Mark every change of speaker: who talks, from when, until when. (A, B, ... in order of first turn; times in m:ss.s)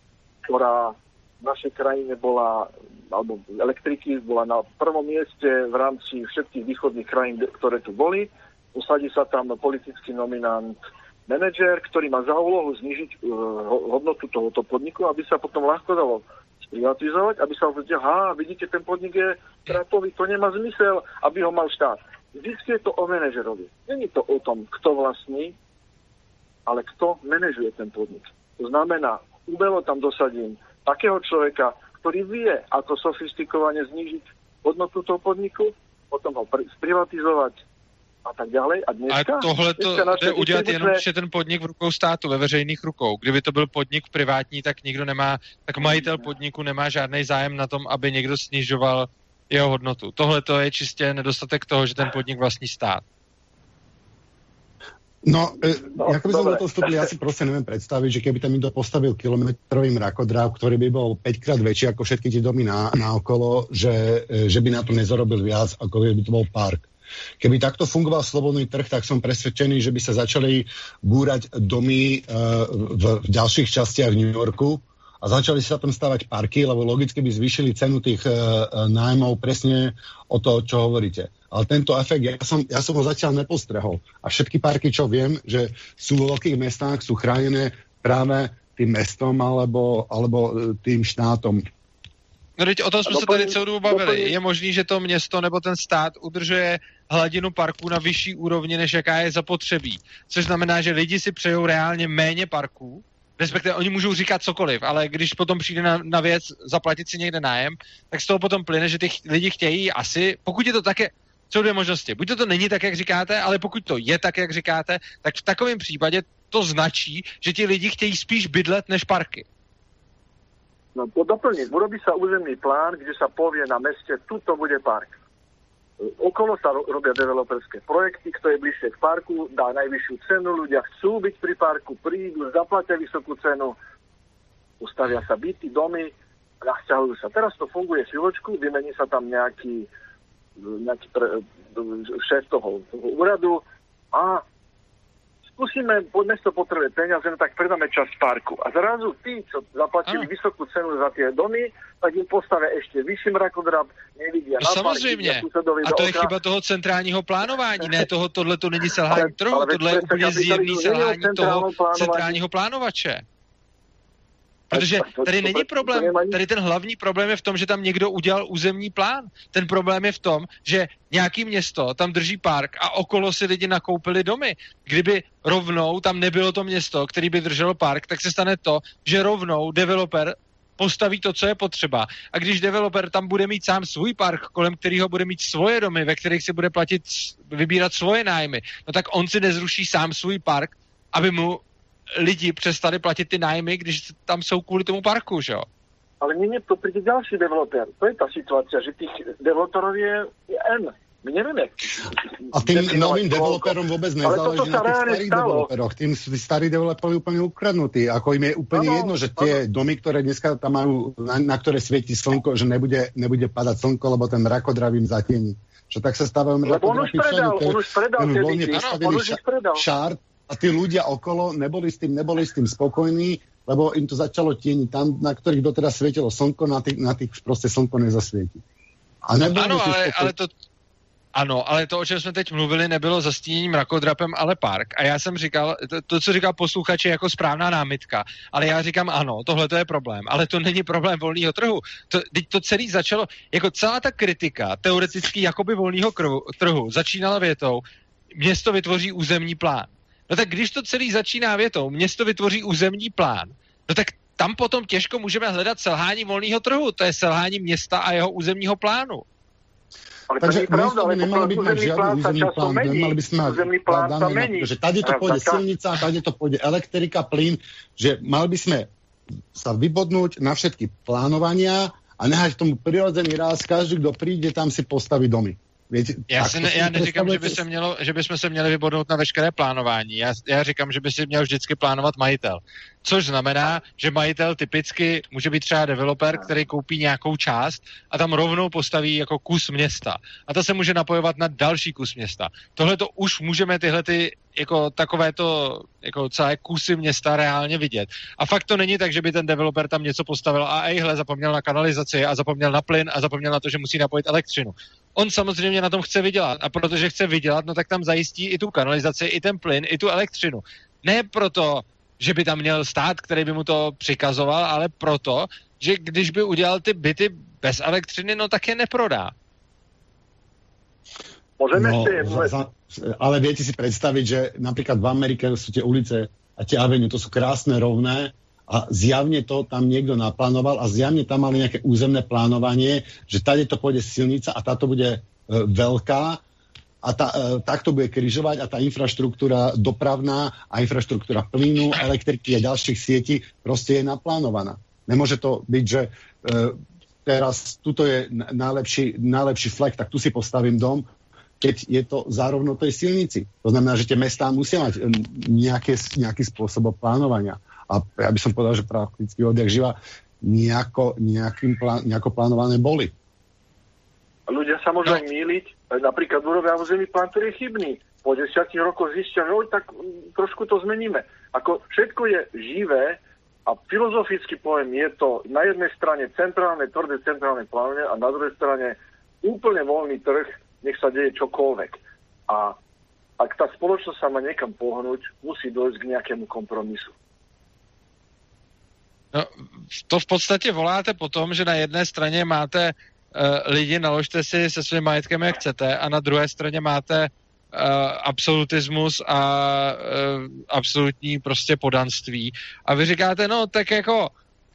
0:00.4-0:25.5 A
0:26.7-0:37.6 A
0:38.2-0:41.0 A
0:39.1-0:53.0 B
0:55.2-1:06.9 C
0:55.8-0:57.1 A
1:07.4-1:31.6 C
1:32.6-1:59.4 B
1:33.1-1:34.3 A
2:00.9-2:05.1 A
2:06.0-2:13.8 A
2:14.8-2:19.9 A
2:20.6-2:24.4 A
2:25.6-2:36.3 A
2:34.6-2:43.2 B
2:39.1-2:42.4 A
2:44.7-3:11.6 B
2:44.7-2:46.4 A
3:12.1-3:15.6 B
3:16.2-3:25.7 A
3:22.5-3:48.6 C
3:28.7-3:29.6 A
3:36.6-3:39.8 A
3:38.7-3:39.0 B
3:49.2-3:50.4 C
3:49.5-3:50.5 B
3:51.3-4:07.8 B
4:08.3-4:19.2 B
4:20.3-4:25.6 A
4:20.4-4:28.9 C
4:29.5-4:37.6 C
4:36.3-5:19.3 B
5:21.6-5:22.5 A
5:21.7-5:36.4 C
5:37.0-5:51.0 C
5:51.6-6:03.1 C
6:04.5-6:22.8 A
6:23.4-6:27.1 A
6:30.1-6:44.3 B